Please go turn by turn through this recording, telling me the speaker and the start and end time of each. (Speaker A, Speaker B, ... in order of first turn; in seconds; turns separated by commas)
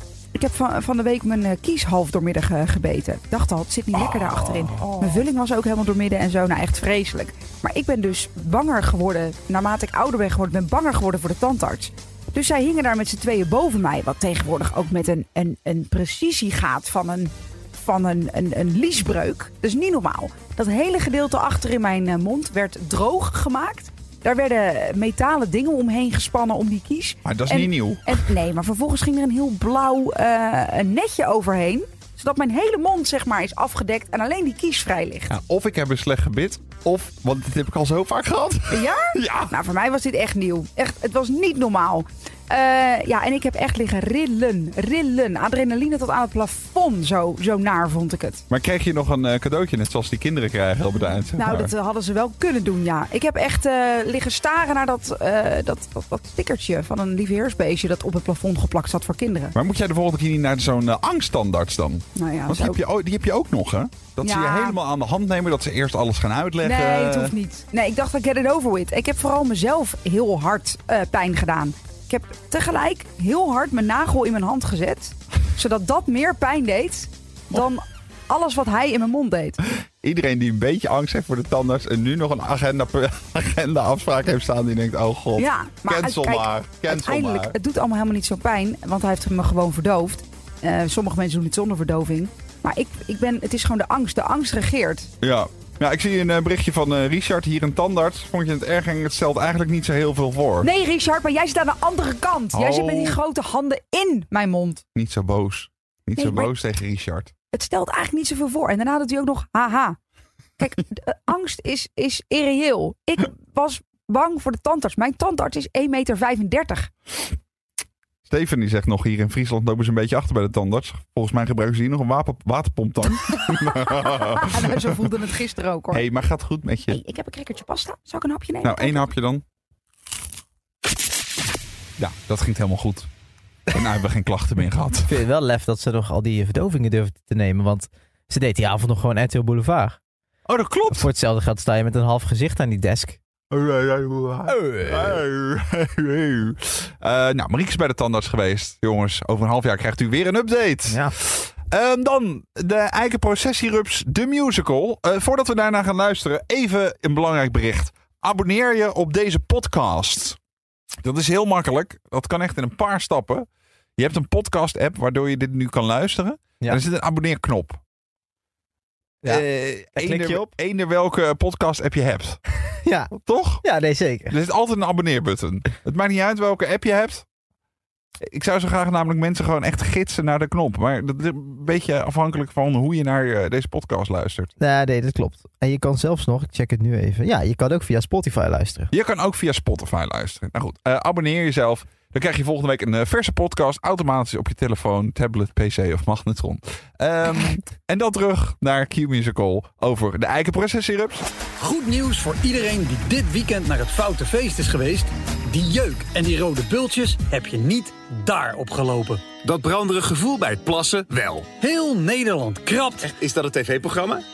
Speaker A: 0.3-35.3, Speaker B: 3.9-5.2, Speaker B: 27.2-28.2, Speaker B: 35.3-39.5, Speaker A: 38.7-48.4, Speaker B: 48.5-51.7, Speaker A: 51.3-59.5, Speaker B: 59.5-67.3, Speaker A: 62.1-62.8, Speaker A: 64.2-64.8, Speaker A: 66.6-79.6, Speaker B: 80.0-87.6, Speaker A: 85.4-95.1, Speaker B: 95.2-100.7, Speaker A: 100.6-104.8, Speaker B: 102.5-103.2, Speaker B: 104.9-107.3, Speaker A: 106.2-106.5, Speaker A: 107.5-110.0, Speaker A: 110.6-116.9, Speaker B: 118.3-124.8, Speaker A: 123.5-126.0, Speaker B: 125.9-127.0, Speaker A: 126.9-129.1, Speaker B: 128.6-129.4, Speaker B: 132.0-133.1, Speaker B: 133.7-135.2, Speaker C: 135.1-140.0, Speaker B: 140.5-141.1, Speaker C: 140.9-143.2, Speaker B: 143.5-160.4, Speaker C: 144.4-145.2, Speaker C: 150.9-151.1, Speaker B: 161.0-163.4, Speaker B: 164.0-167.8, Speaker C: 169.2-170.5, Speaker B: 169.2-172.4, Speaker C: 172.8-174.3, Speaker B: 173.1-173.6, Speaker B: 174.3-177.2, Speaker B: 178.2-184.5, Speaker C: 184.6-188.9, Speaker B: 188.9-201.3, Speaker D: 201.6-209.2, Speaker E: 209.4-211.5, Speaker D: 211.6-213.1, Speaker E: 213.0-214.2